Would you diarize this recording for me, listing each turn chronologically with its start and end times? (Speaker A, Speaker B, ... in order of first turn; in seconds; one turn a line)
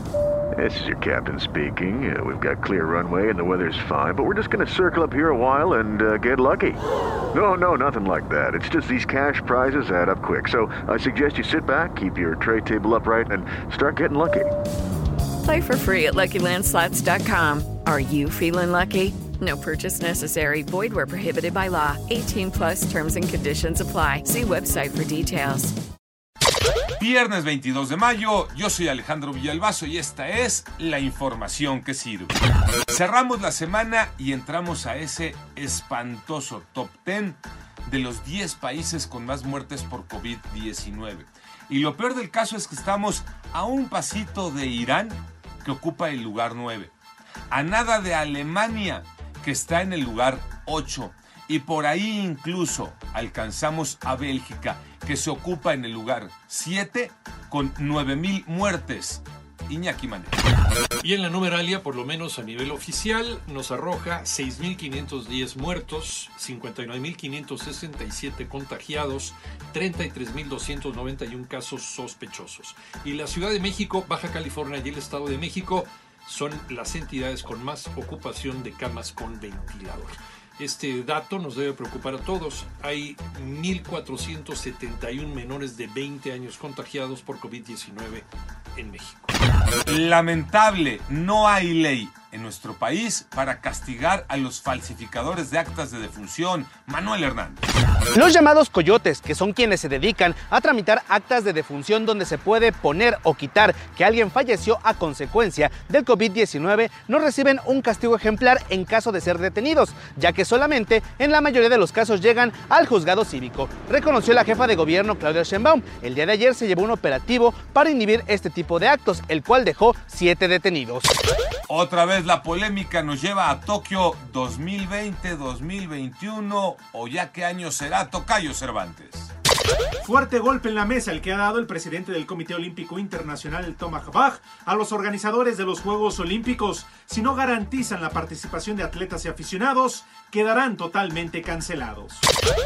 Speaker A: 0.6-6.8
Speaker A: 7.3-14.5
Speaker B: 15.4-25.7
Speaker C: 27.0-32.3
Speaker C: 32.9-46.9
Speaker C: 47.5-60.4
Speaker D: 61.0-89.3
Speaker C: 89.9-97.6
Speaker E: 98.1-121.1
Speaker C: 121.7-129.3
Speaker F: 130.0-142.2